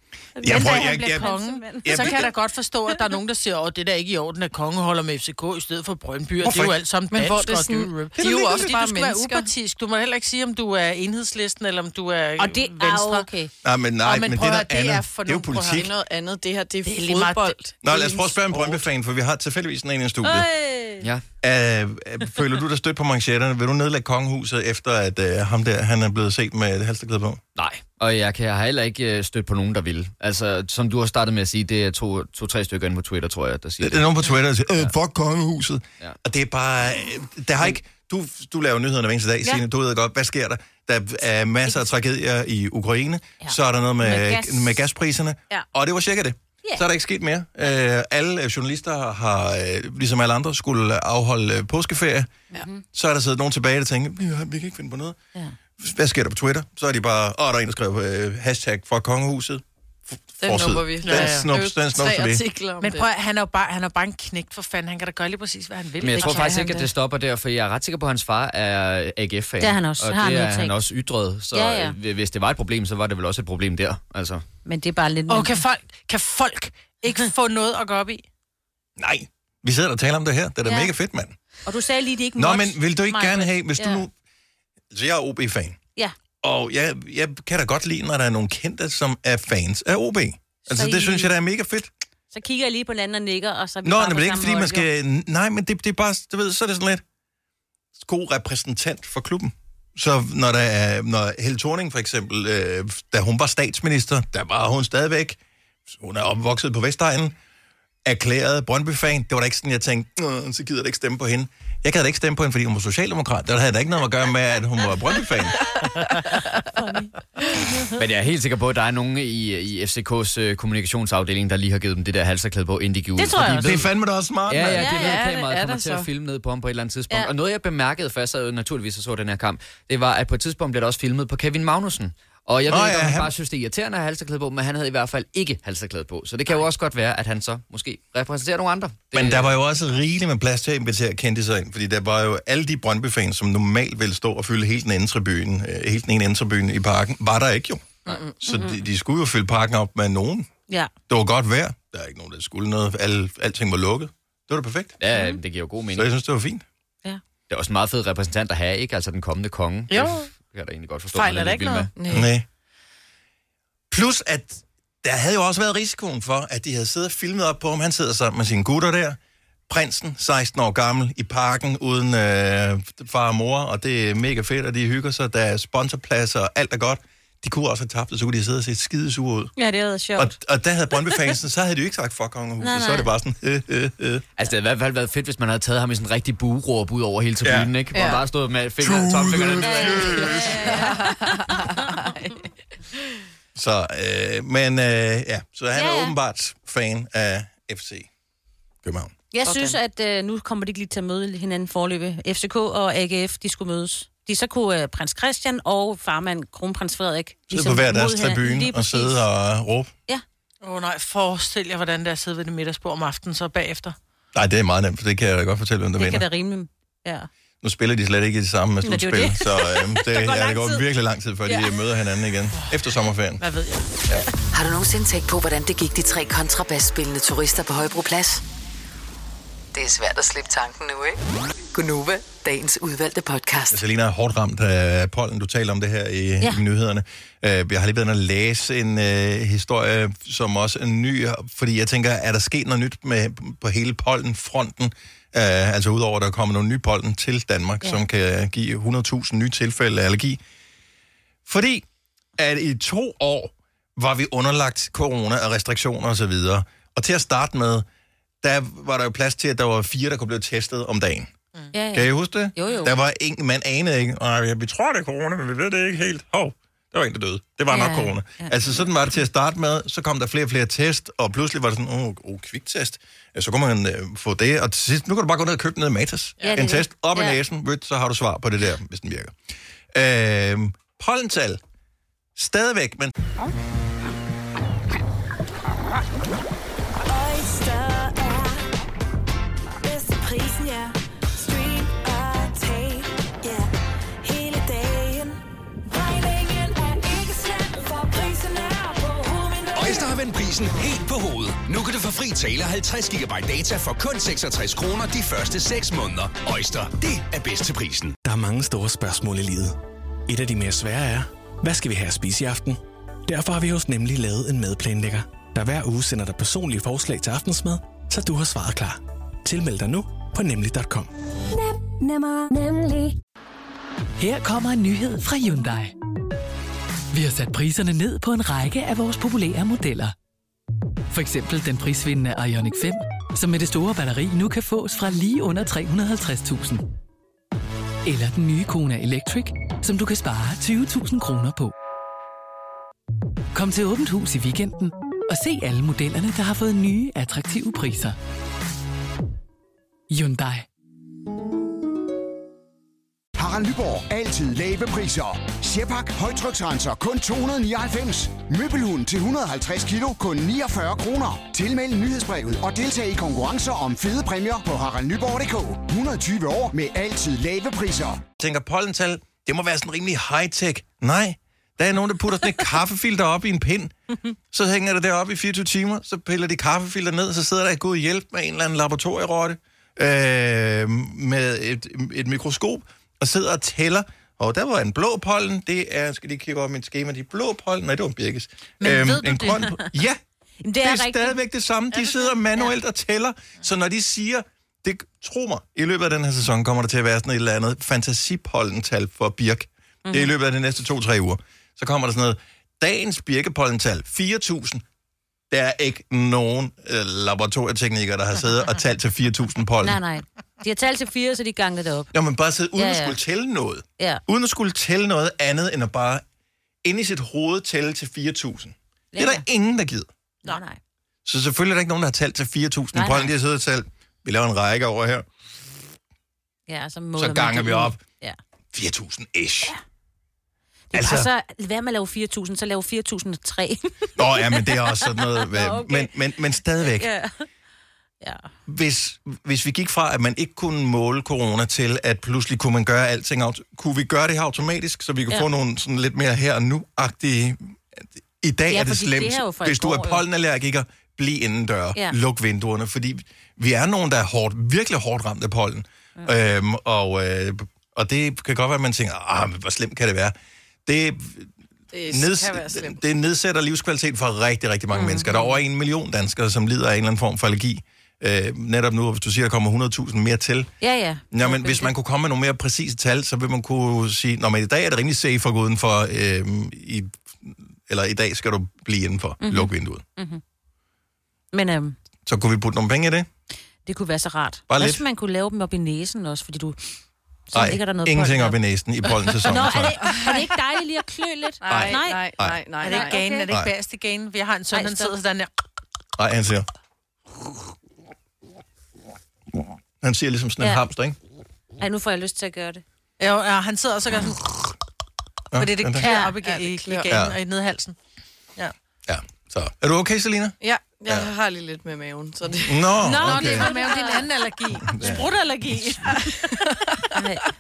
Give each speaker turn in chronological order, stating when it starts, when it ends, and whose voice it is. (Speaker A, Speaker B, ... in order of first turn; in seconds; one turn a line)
Speaker A: 0.4-2.3
Speaker B: 0.4-2.3
Speaker C: 0.5-13.3
Speaker A: 6.4-6.8
Speaker D: 7.1-9.5
Speaker B: 12.4-13.5
Speaker A: 13.6-15.9
Speaker C: 14.0-15.9
Speaker D: 15.7-18.8
Speaker C: 16.8-17.6
Speaker A: 17.8-20.5
Speaker B: 20.2-21.1
Speaker A: 21.4-27.4
Speaker E: 27.6-34.1
Speaker A: 33.8-52.4
Speaker B: 43.4-44.8
Speaker B: 52.5-52.8
Speaker A: 52.9-55.2
Speaker A: 55.8-62.4
Speaker D: 60.4-63.1
Speaker C: 61.0-61.5
Speaker C: 62.8-66.8
Speaker E: 66.0-74.4
Speaker B: 66.2-66.5
Speaker B: 69.6-70.8
Speaker B: 71.5-72.0
Speaker B: 74.7-75.6
Speaker C: 75.3-78.2
Speaker A: 79.0-81.4
Speaker B: 80.7-80.9
Speaker B: 81.7-84.0
Speaker A: 82.4-84.1
Speaker A: 84.9-85.8
Speaker A: 86.4-91.9
Speaker B: 90.7-91.3
Speaker B: 92.3-94.9
Speaker A: 93.8-97.0
Speaker A: 98.0-107.3
Speaker A: 108.0-115.6
Speaker B: 116.8-117.1
Speaker E: 118.0-123.9
Speaker B: 123.2-123.8
Speaker A: 123.6-124.9
Speaker E: 124.5-139.6
Speaker B: 124.8-125.4
Speaker D: 124.9-126.1
Speaker A: 132.7-133.3
Speaker A: 139.1-150.5
Speaker D: 148.1-148.4
Speaker B: 148.5-148.8
Speaker A: 151.1-155.0
Speaker E: 155.0-156.1
Speaker B: 155.1-155.4
Speaker A: 155.9-156.6
Speaker E: 157.5-161.9
Speaker C: 159.9-160.3
Speaker C: 161.1-161.9
Speaker D: 162.0-162.3
Speaker A: 162.1-162.5
Speaker A: 163.9-169.2
Speaker A: 169.7-179.5
Speaker B: 179.6-180.3
Speaker A: 180.2-184.2
Speaker B: 182.6-183.1
Speaker E: 184.4-190.4
Speaker A: 187.4-187.7
Speaker D: 187.9-188.2
Speaker A: 188.8-190.8
Speaker B: 189.6-191.3
Speaker D: 190.7-192.4
Speaker A: 193.6-198.1
Speaker B: 195.7-196.1
Speaker A: 198.8-199.1
Speaker B: 199.3-209.2
Speaker D: 199.4-199.8
Speaker A: 207.5-209.9
Speaker C: 210.6-214.0
Speaker A: 214.3-216.3
Speaker B: 216.0-217.3
Speaker A: 217.6-223.4
Speaker B: 218.8-220.8
Speaker B: 221.5-221.7
Speaker C: 223.4-223.9
Speaker F: 224.5-228.4
Speaker F: 229.7-231.2
Speaker F: 231.7-233.8
Speaker A: 233.7-250.4
Speaker A: 251.5-251.8
Speaker A: 252.4-257.9
Speaker A: 258.4-261.3
Speaker B: 261.7-262.9
Speaker A: 261.9-279.4
Speaker B: 267.7-268.5
Speaker B: 276.4-277.4
Speaker A: 279.9-281.6
Speaker A: 282.4-283.1
Speaker G: 287.1-288.7
Speaker G: 289.8-293.7
Speaker G: 294.2-300.2
Speaker H: 299.8-308.2
Speaker I: 308.2-309.8
Speaker I: 310.3-321.1
Speaker J: 324.2-325.9
Speaker J: 327.1-330.1
Speaker J: 331.1-336.9
Speaker J: 338.1-341.7
Speaker J: 343.5-348.2
Speaker J: 350.1-350.6
Speaker K: 353.4-368.2
Speaker A: 368.4-373.9
Speaker A: 374.5-390.2
Speaker C: 388.8-389.6
Speaker B: 389.5-389.8
Speaker B: 390.6-391.4
Speaker A: 390.8-404.8
Speaker B: 400.1-400.3
Speaker A: 405.5-410.0
Speaker B: 409.8-412.1
Speaker A: 412.1-416.2
Speaker B: 412.8-413.2
Speaker A: 416.8-420.1
Speaker B: 419.1-419.4
Speaker B: 420.4-420.8
Speaker A: 421.2-425.3
Speaker B: 422.9-423.3
Speaker B: 426.7-428.4
Speaker A: 427.2-428.0
Speaker A: 428.7-429.7
Speaker B: 430.9-436.1
Speaker A: 430.9-431.3
Speaker A: 434.2-437.1
Speaker B: 436.8-437.3
Speaker B: 438.2-438.5
Speaker A: 438.7-460.4
Speaker B: 448.7-450.2
Speaker A: 460.9-461.5
Speaker D: 461.9-463.0
Speaker A: 462.1-470.7
Speaker B: 464.9-465.6
Speaker B: 470.8-471.9
Speaker A: 471.3-480.0
Speaker B: 479.4-480.4
Speaker B: 481.5-482.0
Speaker A: 482.3-483.3
Speaker B: 483.9-486.8
Speaker A: 484.7-485.0
Speaker B: 487.5-488.6
Speaker A: 487.5-490.0
Speaker B: 489.4-492.2
Speaker D: 490.1-490.4
Speaker D: 491.6-493.2
Speaker A: 491.7-492.6
Speaker C: 492.8-495.5
Speaker B: 492.8-493.5
Speaker B: 494.7-495.1
Speaker A: 496.2-496.7
Speaker A: 500.0-501.2
Speaker B: 501.8-502.8
Speaker C: 503.2-504.7
Speaker A: 505.5-506.1
Speaker C: 505.6-508.0
Speaker B: 506.0-506.4
Speaker D: 506.5-507.1
Speaker A: 507.1-507.4
Speaker A: 509.1-511.3
Speaker D: 510.6-513.1
Speaker A: 512.7-513.7
Speaker B: 513.0-514.3
Speaker C: 513.2-516.6
Speaker A: 514.9-516.1
Speaker D: 516.1-517.0
Speaker B: 517.1-517.5